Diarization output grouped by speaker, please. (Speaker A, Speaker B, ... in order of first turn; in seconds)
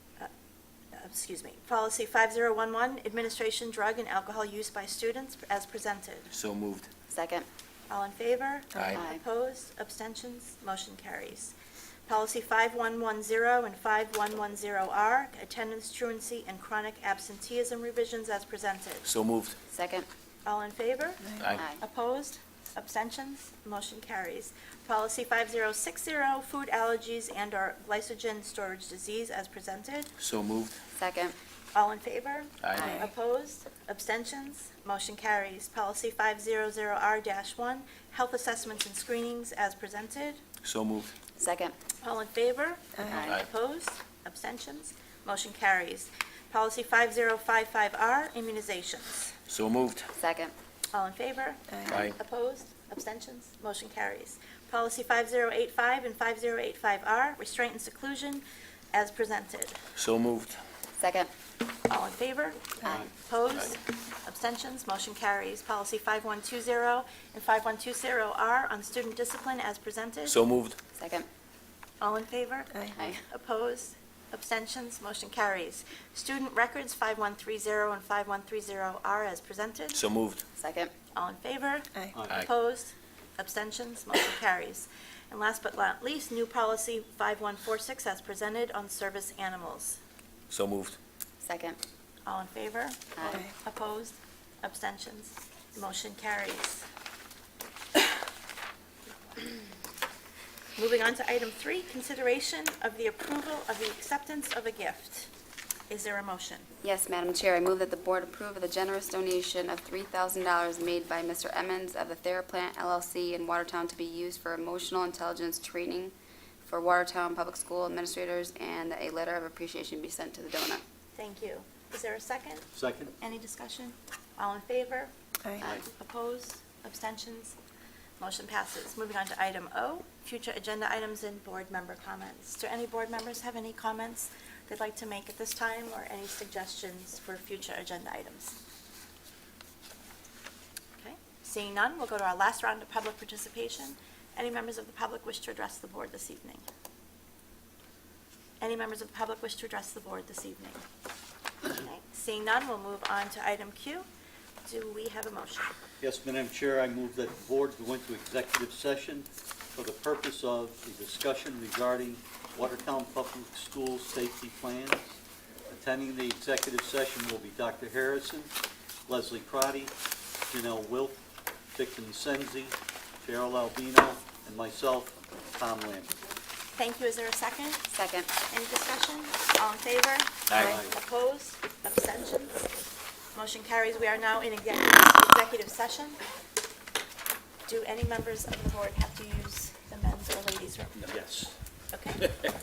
Speaker A: 0.9-6.3, 7.9-11.5, 12.1-19.1, 20.4-30.1, 31.7-40.4, 42.0-49.4, 50.9-59.8, 61.9-70.4, 72.0-80.0, 81.1-90.0, 92.2-96.8, 100.8-105.3, 105.9-106.7, 121.2-127.5, 128.2-138.6, 141.0-146.6, 148.6-150.8, 151.7-154.1, 154.7-155.7, 176.7-177.8, 178.4-182.7, 183.3-186.2, 187.7-191.0, 191.9-192.2
Speaker B: 6.3-6.9, 8.8-9.0, 19.0-19.6, 30.2-30.8, 32.6-33.0, 40.6-41.1, 43.1-43.4, 49.5-50.1, 51.9-52.1, 59.9-60.6, 70.2-70.8, 79.9-80.4, 90.5-91.0, 180.5-180.8
Speaker C: 7.1-7.5, 19.7-20.1, 21.5-21.8, 31.0-31.4, 41.4-41.7, 50.1-50.5, 61.0-61.3, 71.0-71.3, 80.6-80.9, 91.4-91.8, 93.2-93.4, 106.8-120.8, 177.9-178.3
Speaker D: 82.1-82.5, 122.7-123.1, 156.0-165.2, 165.7-168.5, 169.1-169.9, 170.5-171.2, 171.7-176.1, 180.6-180.9, 191.1-191.5